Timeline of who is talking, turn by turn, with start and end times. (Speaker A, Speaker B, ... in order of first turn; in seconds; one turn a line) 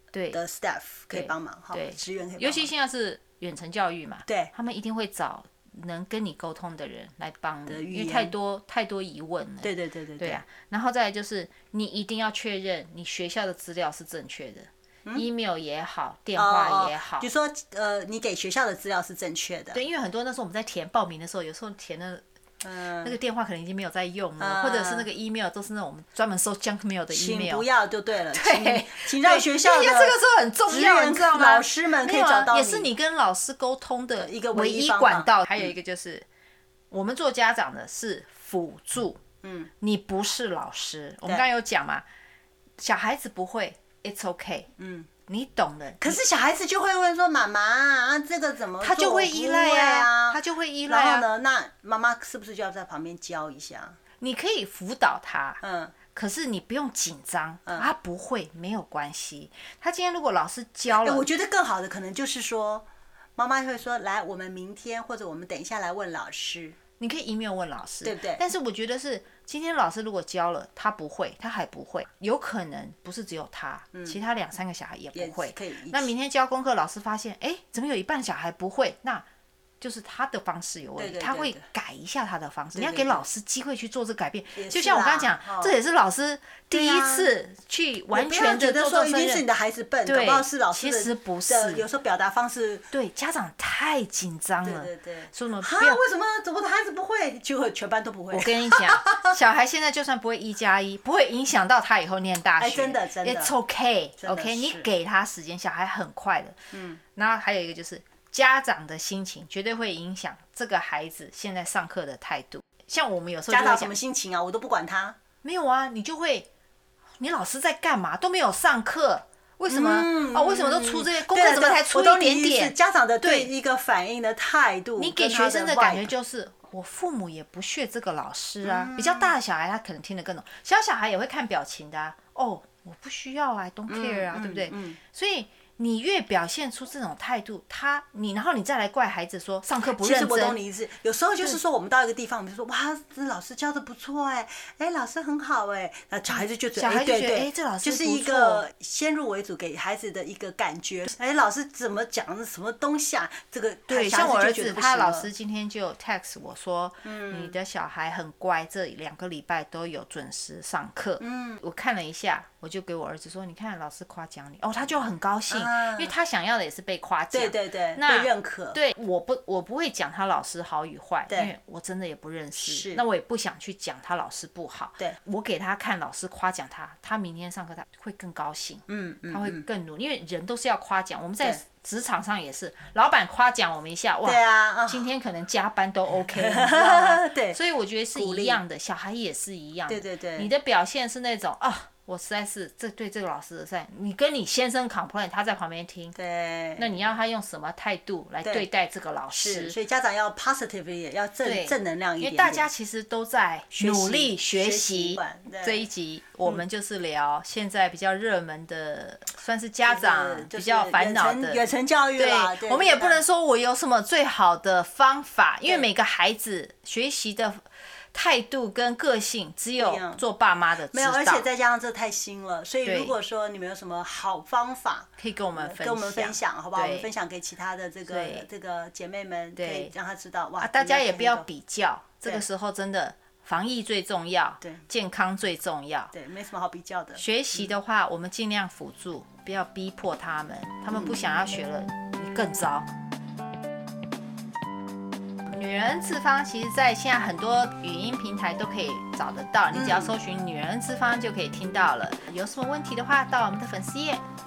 Speaker A: 0.1-0.4
Speaker B: 0.3-2.7
Speaker A: 1.1-17.3
Speaker B: 4.3-4.5
Speaker B: 7.7-8.3
Speaker B: 9.6-10.4
Speaker B: 16.4-19.8
Speaker A: 19.7-22.2
Speaker B: 22.6-23.1
Speaker A: 23.0-27.6
Speaker B: 24.4-25.1
Speaker B: 27.1-32.9
Speaker A: 28.3-36.2
Speaker B: 34.2-35.7
Speaker A: 36.9-39.2
Speaker B: 39.4-39.7
Speaker A: 39.8-42.0
Speaker A: 42.8-44.7
Speaker B: 44.8-45.1
Speaker A: 45.3-46.2
Speaker B: 46.0-54.0
Speaker A: 48.8-51.2
Speaker A: 54.2-61.2
Speaker B: 55.6-56.0
Speaker B: 60.9-66.8
Speaker A: 67.0-79.2
Speaker B: 68.0-68.4
Speaker B: 75.1-76.1
Speaker A: 79.8-89.4
Speaker B: 81.0-81.6
Speaker B: 82.7-83.2
Speaker B: 84.6-85.7
Speaker B: 86.7-87.3
Speaker B: 88.1-92.8
Speaker A: 90.0-91.8
Speaker A: 92.9-96.0
Speaker B: 94.6-99.3
Speaker A: 98.3-106.6
Speaker B: 102.6-103.5
Speaker B: 104.2-104.9
Speaker B: 106.7-107.0
Speaker A: 107.1-113.9
Speaker B: 113.5-115.2
Speaker A: 115.4-116.5
Speaker A: 117.2-123.5
Speaker B: 119.7-126.1
Speaker A: 125.0-140.6
Speaker B: 128.6-129.3
Speaker B: 133.9-135.0
Speaker B: 140.0-155.3
Speaker A: 146.4-148.6
Speaker A: 153.9-196.1
Speaker B: 157.0-157.5
Speaker B: 161.2-161.6
Speaker B: 165.5-166.1
Speaker B: 167.3-168.8
Speaker B: 172.6-173.0
Speaker B: 178.9-179.6
Speaker B: 184.2-185.1
Speaker B: 186.4-187.6
Speaker B: 188.1-188.6
Speaker B: 189.9-190.5
Speaker B: 196.1-196.9
Speaker A: 196.8-199.8
Speaker B: 199.3-202.7
Speaker A: 201.4-211.6
Speaker B: 203.7-205.8
Speaker B: 209.9-213.2
Speaker A: 212.2-217.6
Speaker A: 218.1-221.4
Speaker B: 219.8-220.2
Speaker B: 220.9-231.4
Speaker A: 222.8-223.1
Speaker A: 225.2-227.1
Speaker A: 228.1-228.5
Speaker A: 229.5-229.9
Speaker A: 230.6-236.1
Speaker B: 236.1-237.7
Speaker A: 237.2-242.9
Speaker B: 240.9-241.2
Speaker A: 245.5-254.2
Speaker B: 249.7-250.1